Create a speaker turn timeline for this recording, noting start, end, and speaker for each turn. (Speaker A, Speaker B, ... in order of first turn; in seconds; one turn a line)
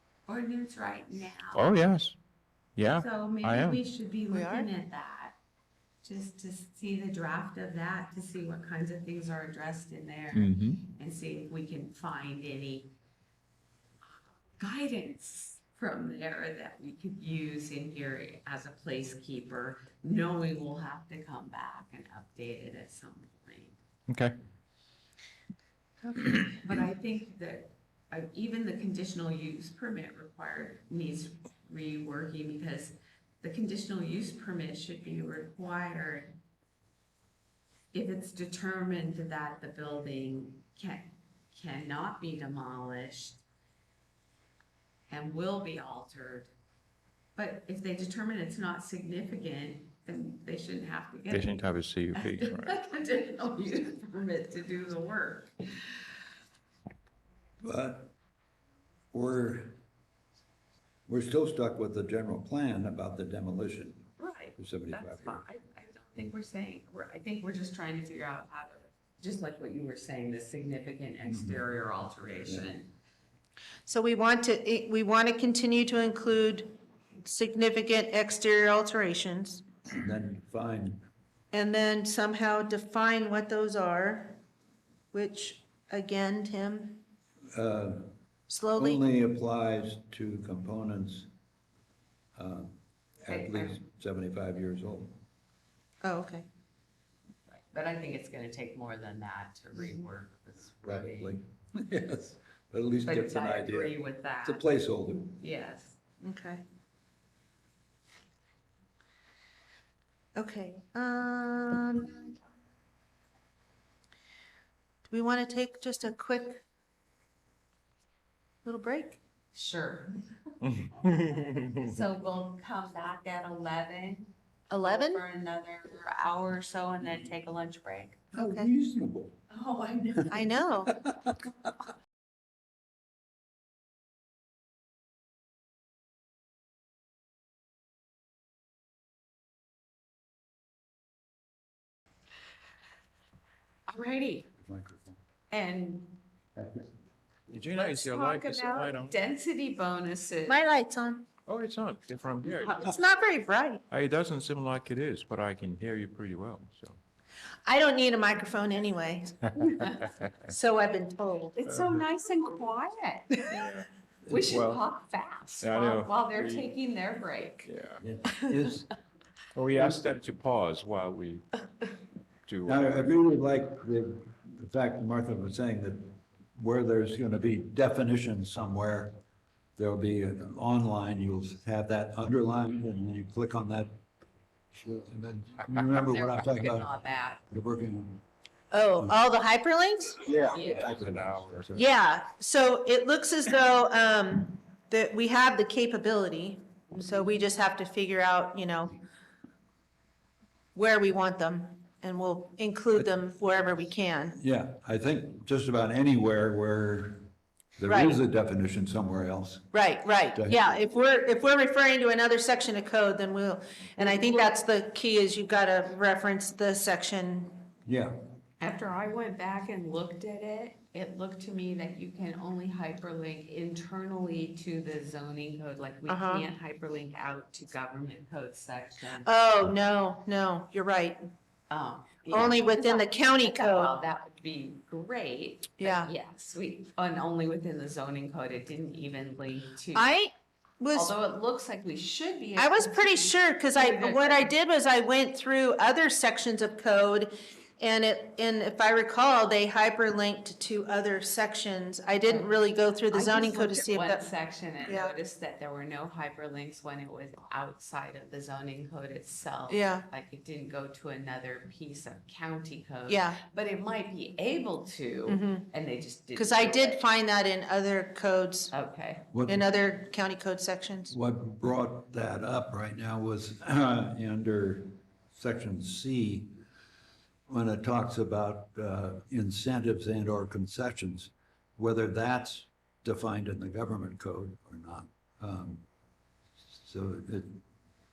Speaker A: 0.3-1.7
Speaker B: 1.5-2.1
Speaker B: 2.8-3.8
Speaker A: 2.9-5.4
Speaker C: 4.3-4.7
Speaker A: 6.0-12.9
Speaker B: 10.3-10.8
Speaker A: 14.6-23.8
Speaker B: 24.1-24.3
Speaker A: 26.6-36.3
Speaker A: 37.9-43.4
Speaker A: 45.1-46.5
Speaker A: 47.4-56.0
Speaker B: 51.3-52.8
Speaker D: 57.6-58.1
Speaker D: 59.1-59.7
Speaker D: 61.1-65.5
Speaker A: 64.2-72.9
Speaker D: 71.2-71.6
Speaker D: 72.4-72.7
Speaker C: 73.8-79.6
Speaker D: 79.9-81.0
Speaker C: 81.5-84.4
Speaker C: 85.1-87.0
Speaker D: 87.5-88.1
Speaker C: 88.5-89.0
Speaker D: 88.8-91.3
Speaker D: 92.3-95.2
Speaker A: 93.3-93.8
Speaker C: 96.0-96.5
Speaker A: 97.6-101.4
Speaker D: 100.8-105.4
Speaker A: 103.0-104.7
Speaker A: 105.4-106.0
Speaker C: 106.2-106.6
Speaker C: 110.3-112.3
Speaker C: 115.1-116.6
Speaker C: 118.6-119.2
Speaker A: 119.5-120.2
Speaker B: 121.1-121.7
Speaker A: 121.8-128.3
Speaker C: 124.7-125.2
Speaker C: 128.3-128.7
Speaker D: 128.3-129.4
Speaker A: 129.5-130.6
Speaker C: 130.3-131.0
Speaker D: 131.0-131.3
Speaker A: 143.9-144.5
Speaker D: 144.6-145.2
Speaker A: 145.5-146.2
Speaker D: 146.6-146.8
Speaker B: 147.5-149.2
Speaker A: 147.7-150.6
Speaker C: 150.4-151.3
Speaker B: 151.5-152.9
Speaker C: 152.6-153.8
Speaker B: 153.9-157.0
Speaker C: 157.7-159.5
Speaker A: 159.6-160.1
Speaker C: 160.5-161.6
Speaker A: 161.6-163.7
Speaker B: 163.5-164.8
Speaker D: 164.2-164.6
Speaker A: 164.3-167.7
Speaker B: 165.6-166.7
Speaker B: 167.7-168.0
Speaker D: 168.0-168.9
Speaker A: 168.3-168.6
Speaker B: 169.5-171.4
Speaker B: 172.5-172.9
Speaker D: 172.6-179.1
Speaker D: 179.8-183.9
Speaker D: 184.8-186.9
Speaker A: 185.9-187.4
Speaker D: 187.5-188.2
Speaker C: 188.7-190.2
Speaker D: 190.2-191.8
Speaker B: 190.3-191.7
Speaker A: 190.5-190.9
Speaker C: 191.7-198.9
Speaker C: 200.7-204.4
Speaker D: 204.3-209.7
Speaker C: 207.8-208.2
Speaker C: 209.7-217.7
Speaker D: 210.3-210.7
Speaker A: 214.0-214.6
Speaker D: 217.8-218.1
Speaker A: 218.6-229.3
Speaker C: 226.1-226.4
Speaker C: 229.2-231.2
Speaker A: 231.7-240.1
Speaker C: 232.3-233.9
Speaker C: 235.8-236.1
Speaker C: 239.9-241.1
Speaker A: 240.9-244.5
Speaker C: 242.6-254.2
Speaker A: 252.2-252.5
Speaker A: 253.1-267.0
Speaker C: 254.8-255.1
Speaker C: 259.7-260.1
Speaker C: 263.1-263.4
Speaker C: 265.3-265.7
Speaker C: 266.3-268.7
Speaker A: 268.7-269.3
Speaker D: 269.3-269.7
Speaker C: 269.4-271.1
Speaker D: 271.1-276.5
Speaker D: 277.5-285.8
Speaker D: 286.8-287.6